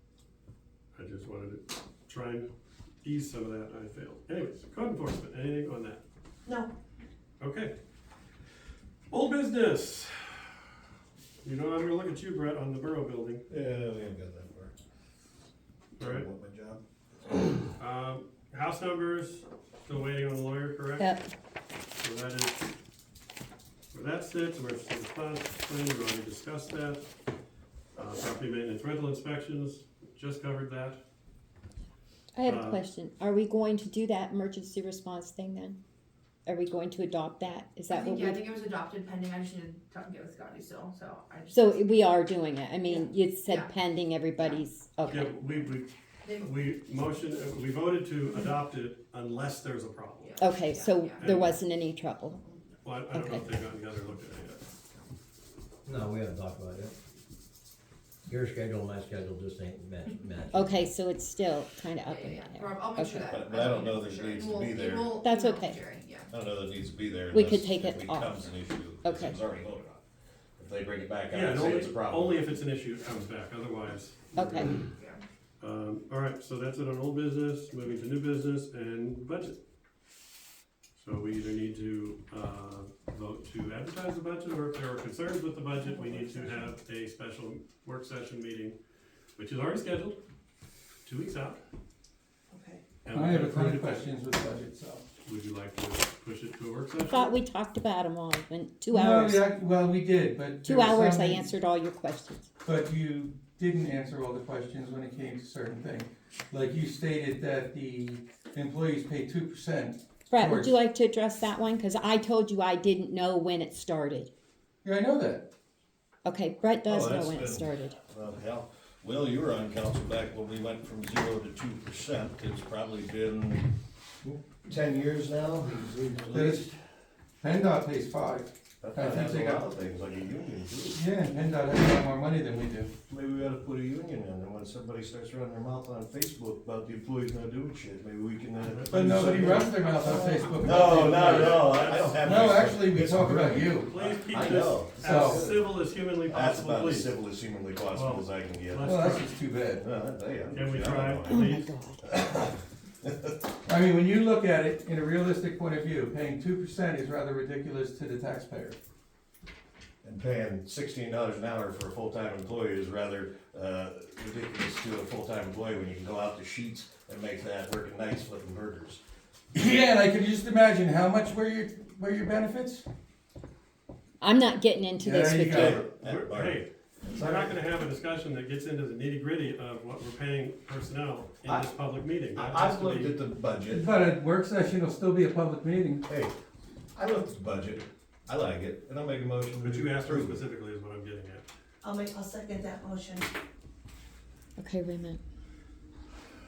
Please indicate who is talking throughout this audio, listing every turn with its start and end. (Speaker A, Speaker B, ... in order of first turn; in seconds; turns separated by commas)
Speaker A: 0.9-2.5, Speaker A: 3.0-6.0, Speaker B: 6.4-6.7, Speaker A: 7.4-7.7, Speaker A: 9.1-10.5, Speaker A: 11.4-13.4, Speaker C: 13.5-14.7, Speaker A: 16.0-16.3, Speaker C: 16.0-16.8, Speaker A: 17.8-21.1, Speaker D: 21.0-21.3, Speaker A: 22.0-22.7, Speaker A: 23.9-27.0, Speaker A: 27.9-31.0, Speaker D: 32.3-35.8, Speaker A: 32.4-32.8, Speaker D: 36.5-38.5, Speaker E: 37.9-42.0, Speaker D: 41.5-45.3, Speaker E: 42.8-43.7, Speaker E: 44.4-44.6, Speaker A: 45.1-50.4, Speaker E: 46.2-46.6, Speaker E: 50.2-51.5, Speaker D: 50.4-52.4, Speaker A: 51.2-51.5, Speaker A: 52.8-54.6, Speaker D: 53.1-53.5, Speaker F: 55.8-56.9, Speaker F: 58.3-60.8, Speaker D: 60.5-63.3, Speaker E: 62.0-66.3, Speaker C: 63.3-65.2, Speaker D: 65.2-65.8, Speaker C: 66.3-70.0, Speaker D: 67.3-69.4, Speaker C: 70.6-72.6, Speaker A: 71.3-74.9, Speaker D: 74.3-74.8, Speaker E: 74.8-75.2, Speaker A: 75.6-79.5, Speaker A: 81.0-88.8, Speaker B: 85.8-86.7, Speaker A: 89.3-90.2, Speaker A: 91.0-91.6, Speaker B: 92.5-92.8, Speaker A: 93.0-94.1, Speaker G: 93.1-95.0, Speaker A: 95.2-97.3, Speaker D: 97.1-99.5, Speaker G: 98.9-101.5, Speaker D: 100.6-102.5, Speaker G: 102.6-110.7, Speaker D: 110.3-114.3, Speaker G: 114.8-115.5, Speaker D: 116.2-118.0, Speaker C: 116.8-123.7, Speaker C: 124.2-126.7, Speaker G: 126.3-126.7, Speaker G: 127.4-129.6, Speaker C: 128.8-131.0, Speaker G: 130.9-132.9, Speaker C: 133.1-139.8, Speaker A: 138.6-139.6, Speaker G: 138.9-143.9, Speaker C: 140.5-149.0, Speaker A: 141.0-142.6, Speaker A: 143.8-147.1, Speaker G: 145.0-145.4, Speaker A: 147.9-149.3, Speaker G: 148.8-149.8, Speaker C: 149.7-153.3, Speaker A: 150.5-151.7, Speaker D: 151.2-152.0, Speaker G: 153.7-158.8, Speaker C: 160.0-169.0, Speaker G: 169.5-172.8, Speaker D: 174.2-175.8, Speaker G: 175.0-175.8, Speaker C: 175.5-176.6, Speaker A: 175.8-183.1, Speaker G: 177.1-177.5, Speaker C: 181.4-181.7, Speaker C: 182.3-183.9, Speaker G: 183.7-186.1, Speaker C: 186.1-186.3, Speaker C: 186.9-190.4, Speaker A: 189.6-191.4, Speaker B: 191.8-193.3, Speaker D: 194.6-195.2